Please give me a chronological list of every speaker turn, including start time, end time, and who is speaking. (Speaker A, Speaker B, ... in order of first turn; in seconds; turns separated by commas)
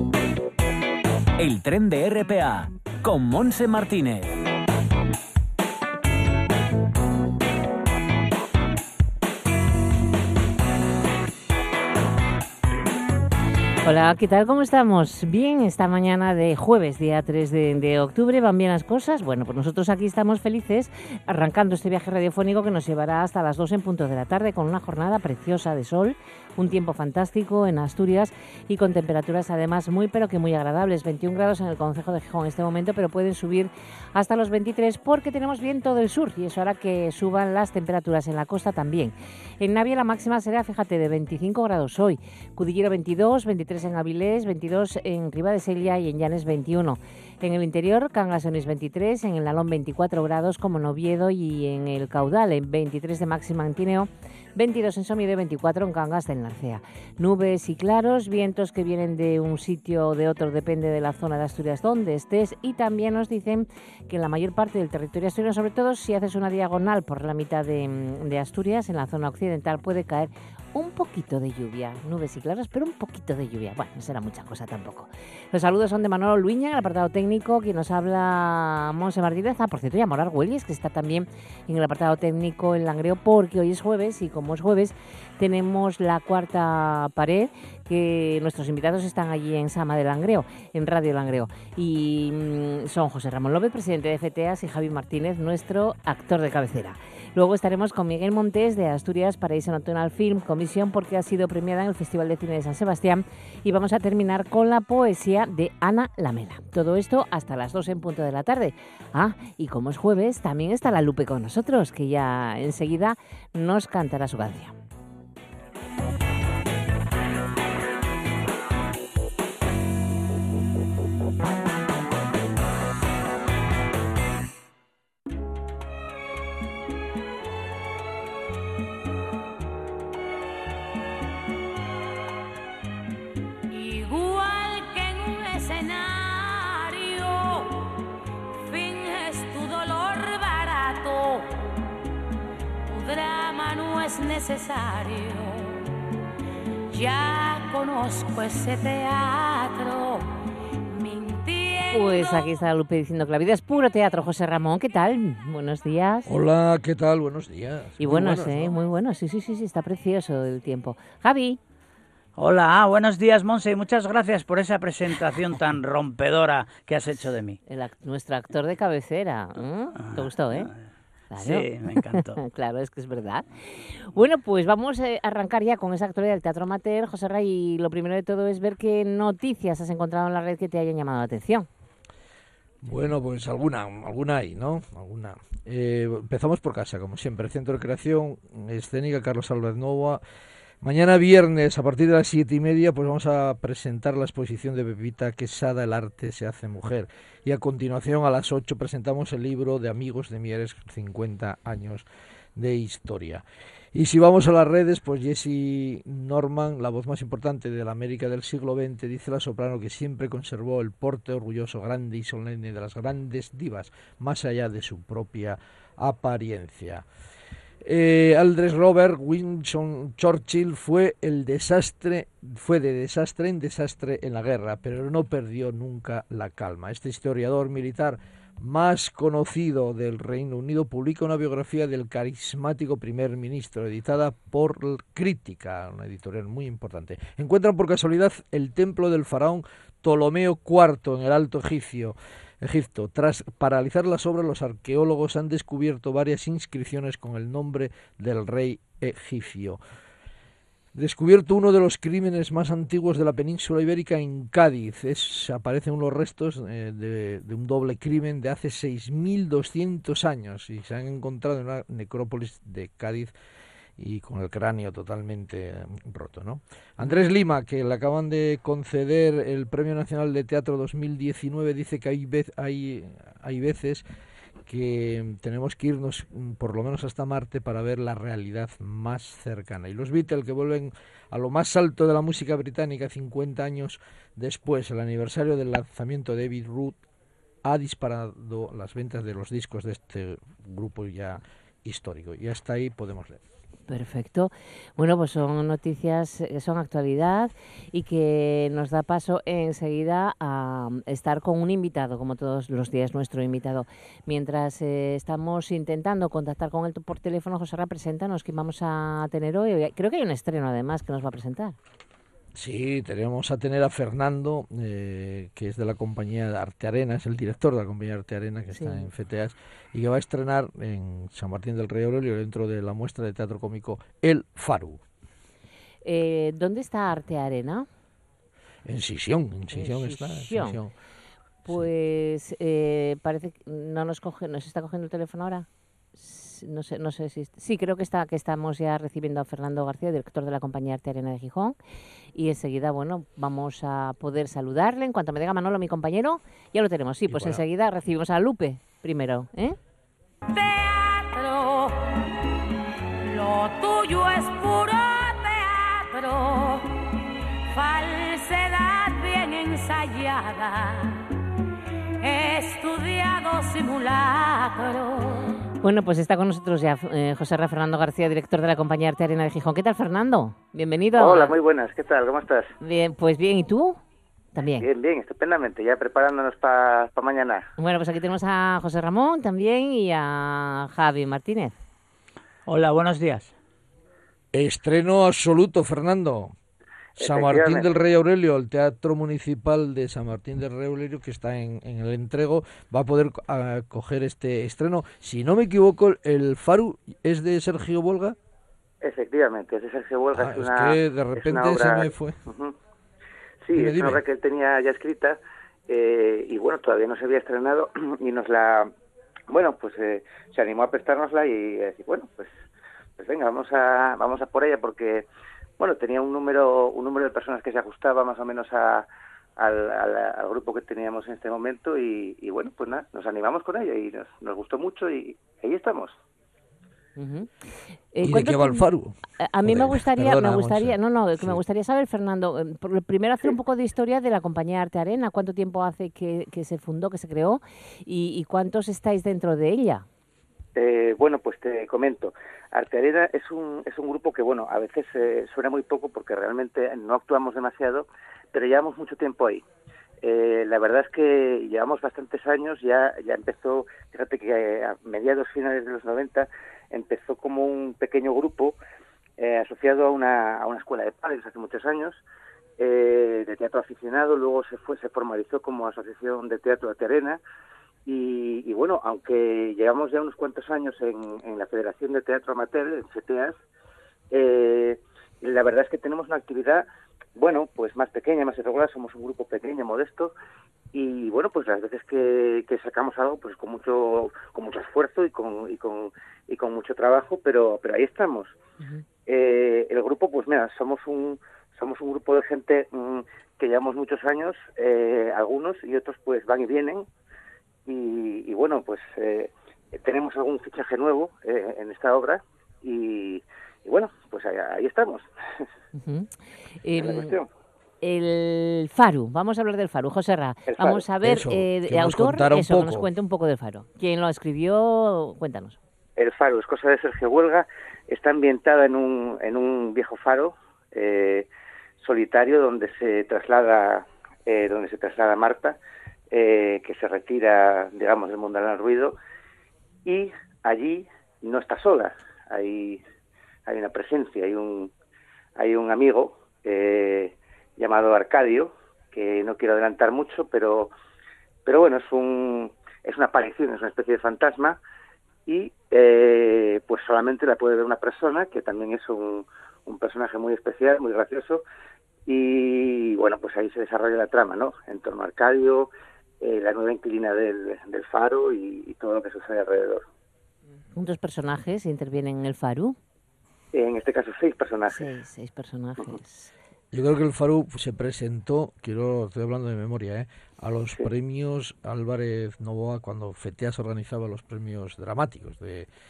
Speaker A: 1.4-4.3, Speaker B: 13.8-114.7, Speaker C: 133.7-137.7, Speaker C: 138.7-141.4, Speaker C: 142.9-145.8, Speaker C: 146.9-150.2, Speaker C: 150.9-152.6, Speaker B: 151.9-156.3, Speaker D: 156.2-158.8, Speaker B: 158.0-161.6, Speaker E: 162.3-167.6, Speaker B: 167.7-170.7, Speaker E: 170.0-170.7, Speaker B: 171.3-181.7, Speaker E: 171.3-172.4, Speaker D: 182.8-190.2, Speaker D: 190.8-217.0, Speaker D: 217.8-249.8, Speaker D: 250.9-263.3, Speaker D: 264.0-274.0, Speaker D: 274.6-287.0, Speaker D: 287.6-293.4, Speaker B: 293.9-311.8, Speaker D: 312.5-325.0, Speaker B: 318.7-319.1, Speaker B: 326.0-327.9, Speaker D: 328.8-330.9, Speaker B: 329.7-330.8, Speaker B: 331.6-341.8, Speaker B: 342.3-349.8, Speaker D: 347.3-347.6, Speaker C: 350.5-352.0, Speaker C: 353.2-356.8, Speaker C: 357.7-361.2, Speaker C: 362.2-365.5, Speaker B: 365.8-371.5, Speaker F: 371.2-372.7, Speaker B: 372.8-374.0, Speaker B: 374.5-374.9, Speaker F: 374.8-377.7, Speaker B: 377.8-381.7, Speaker E: 382.6-383.5, Speaker D: 384.5-386.5, Speaker D: 387.2-398.4, Speaker F: 387.2-387.9, Speaker F: 399.0-402.7, Speaker D: 400.3-402.4, Speaker F: 403.6-405.4, Speaker D: 403.7-404.2, Speaker F: 405.9-408.9, Speaker F: 409.5-412.5, Speaker F: 413.2-415.2, Speaker F: 415.8-419.1, Speaker F: 419.6-426.1, Speaker B: 427.2-427.5, Speaker B: 428.1-428.8, Speaker D: 428.2-431.6, Speaker B: 429.4-440.1, Speaker F: 440.8-449.6, Speaker F: 450.2-458.8, Speaker F: 459.4-462.2, Speaker F: 462.8-467.4, Speaker F: 468.1-473.6, Speaker F: 474.3-476.8, Speaker F: 477.4-480.3, Speaker F: 480.9-488.5, Speaker F: 489.3-497.1, Speaker F: 497.9-505.2, Speaker B: 505.9-506.3, Speaker B: 506.8-507.3, Speaker F: 506.9-507.5, Speaker B: 508.0-515.8, Speaker F: 510.7-511.0, Speaker D: 511.2-513.1, Speaker F: 516.2-521.5, Speaker F: 522.0-525.8, Speaker F: 526.3-529.1, Speaker F: 530.0-533.0, Speaker F: 533.7-534.9, Speaker F: 535.6-540.9, Speaker F: 541.6-544.8, Speaker F: 545.5-551.6, Speaker F: 552.2-555.9, Speaker F: 556.4-560.0, Speaker B: 560.9-563.0, Speaker F: 563.7-565.0, Speaker B: 564.9-566.5, Speaker D: 566.9-575.9